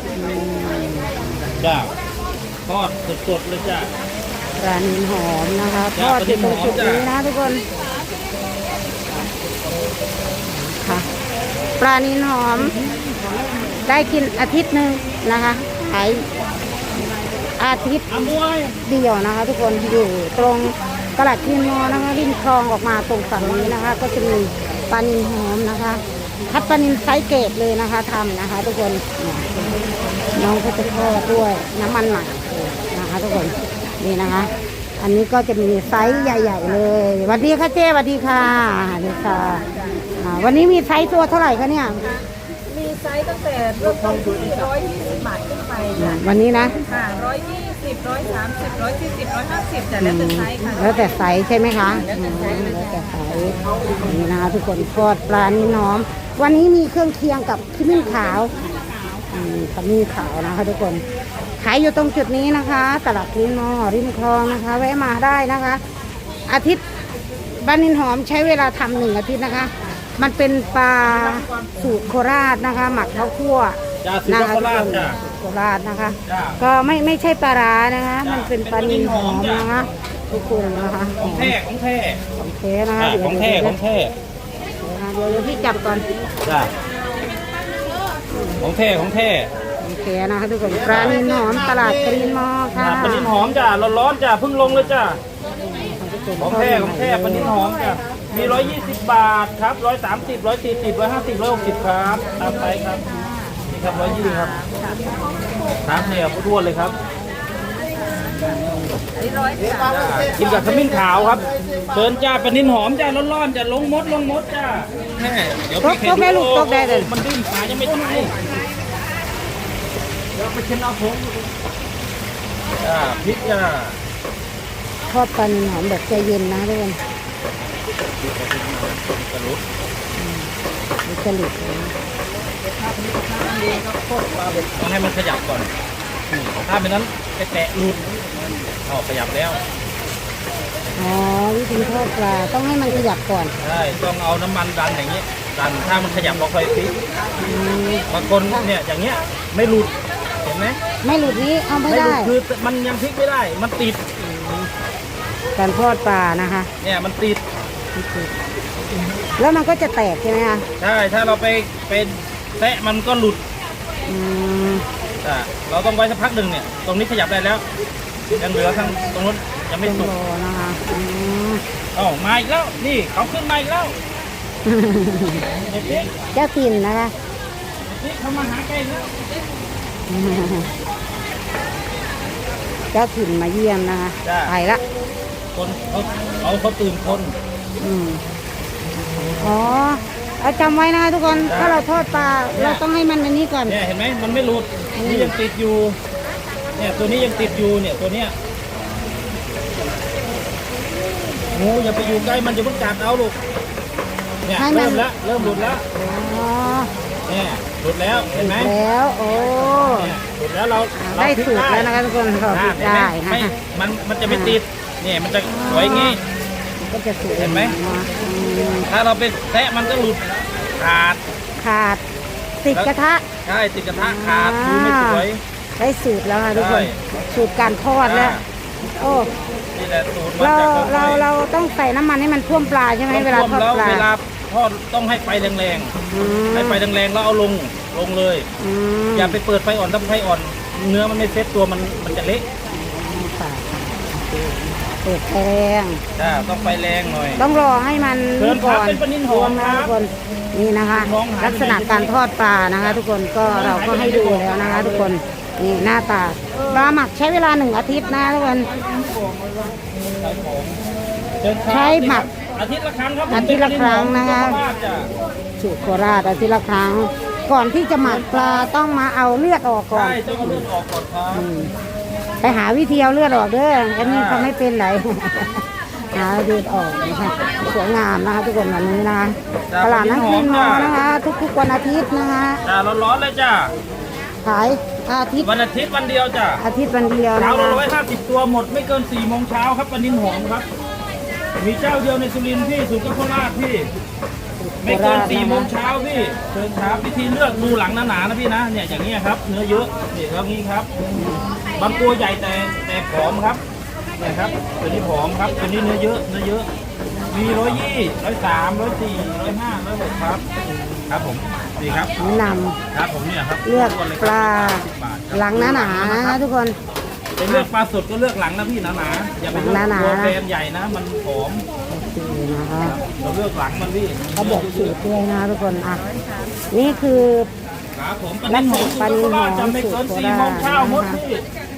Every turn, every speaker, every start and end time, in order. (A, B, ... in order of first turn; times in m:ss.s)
0:00.1-0:01.5 A
0:01.6-0:01.9 B
0:02.7-0:03.9 B
0:04.6-0:07.6 A
0:06.0-0:07.1 B
0:10.5-0:11.0 A
0:11.8-0:12.7 A
0:13.8-0:16.2 A
0:17.6-0:18.1 A
0:18.1-0:18.8 B
0:18.8-0:29.7 A
0:30.3-0:42.0 A
0:42.7-0:45.9 C
0:45.9-0:46.8 A
0:46.8-0:50.1 C
0:50.0-0:58.5 A
0:59.3-1:01.0 A
1:01.6-1:05.8 A
1:06.4-1:06.8 A
1:07.6-1:21.6 A
1:11.1-1:11.6 B
1:14.0-1:15.2 B
1:16.3-1:16.6 B
1:18.2-1:19.7 B
1:21.2-1:22.2 B
1:22.4-1:23.8 A
1:23.0-1:24.1 B
1:24.8-1:26.1 A
1:26.4-1:26.7 B
1:28.3-1:28.6 A
1:28.6-1:29.5 B
1:29.8-1:33.3 A
1:30.8-1:31.2 B
1:32.7-1:35.2 B
1:35.6-1:37.5 A
1:36.4-1:43.1 B
1:38.3-1:38.7 A
1:43.7-1:44.6 B
1:44.4-1:45.6 C
1:45.8-1:47.0 B
1:49.2-1:49.9 C
1:49.8-1:58.3 B
1:55.8-1:57.1 A
2:00.4-2:01.3 B
2:02.8-2:04.0 B
2:05.1-2:07.0 A
2:08.1-2:09.6 B
2:10.2-2:10.5 A
2:11.0-2:11.9 A
2:12.9-2:15.7 B
2:16.3-2:18.0 B
2:18.8-2:19.6 B
2:21.0-2:23.5 A
2:23.6-2:27.0 B
2:27.4-2:28.7 A
2:28.1-2:30.8 B
2:31.0-2:32.3 A
2:31.8-2:34.0 B
2:34.2-2:34.7 A
2:35.6-2:36.7 A
2:36.8-2:37.4 B
2:37.9-2:38.3 A
2:39.4-2:40.6 A
2:40.8-2:43.4 B
2:44.0-2:44.8 A
2:45.2-2:47.6 B
2:48.3-2:50.1 B
2:49.8-2:51.6 A
2:51.9-2:54.0 B
2:54.6-2:55.4 A
2:55.7-2:56.1 B
2:56.3-2:57.1 A
2:57.8-2:59.1 B
3:00.1-3:00.7 A
3:02.9-3:04.8 A
3:04.2-3:04.5 B
3:05.5-3:07.3 B
3:07.8-3:08.2 A
3:09.4-3:13.8 A
3:11.5-3:11.8 B
3:12.5-3:12.8 B
3:13.6-3:16.0 B
3:14.9-3:15.3 A
3:16.8-3:18.3 B
3:21.5-3:23.4 B
3:24.4-3:25.8 B
3:24.6-3:26.9 A
3:27.3-3:28.7 B
3:28.4-3:30.1 A
3:29.8-3:31.9 B
3:30.9-3:33.5 A
3:32.5-3:36.2 B
3:34.2-3:34.6 A
3:35.4-3:36.2 A
3:36.8-3:38.9 A
3:37.4-3:37.7 B
3:38.9-3:41.2 B
3:41.6-3:42.0 A
3:42.6-3:43.2 A
3:43.4-3:45.4 B
3:43.9-3:45.2 A
3:45.8-3:48.4 A
3:46.5-3:47.0 B
3:48.0-3:48.4 B
3:49.0-3:49.3 A
3:49.7-3:51.2 B
3:50.4-3:54.1 A
3:53.1-3:55.9 B
3:56.1-3:56.8 A
3:56.5-3:58.5 B
3:58.6-3:59.4 A
3:59.1-4:02.4 B
4:02.7-4:06.0 A
4:06.2-4:07.4 B
4:07.4-4:18.7 A
4:08.4-4:09.9 B
4:10.9-4:12.1 B
4:12.8-4:15.1 B
4:16.5-4:16.9 B
4:18.7-4:20.8 B
4:21.4-4:25.1 B
4:21.7-4:22.3 A
4:23.3-4:24.6 A
4:25.6-4:30.6 A
4:28.0-4:28.7 B
4:29.9-4:31.4 B
4:31.3-4:31.7 A
4:32.4-4:42.6 A
4:34.0-4:34.5 B
4:39.7-4:40.9 B
4:42.6-4:43.7 B
4:44.4-4:45.5 A
4:45.4-4:46.6 B
4:46.6-4:47.8 A
4:47.3-4:50.7 B
4:51.6-4:53.9 B
4:54.6-4:55.7 A
4:54.8-5:00.9 B
5:01.1-5:01.4 A
5:01.8-5:03.6 B
5:04.2-5:06.7 B
5:07.3-5:10.4 B
5:10.6-5:11.0 A
5:11.1-5:12.2 B
5:12.2-5:12.8 A
5:12.9-5:16.4 B
5:13.6-5:16.8 A
5:17.4-5:21.6 B
5:19.5-5:20.4 A
5:21.9-5:23.0 A
5:23.0-5:25.0 B
5:24.4-5:26.1 A
5:26.7-5:27.5 A
5:28.0-5:31.4 B
5:28.5-5:31.2 A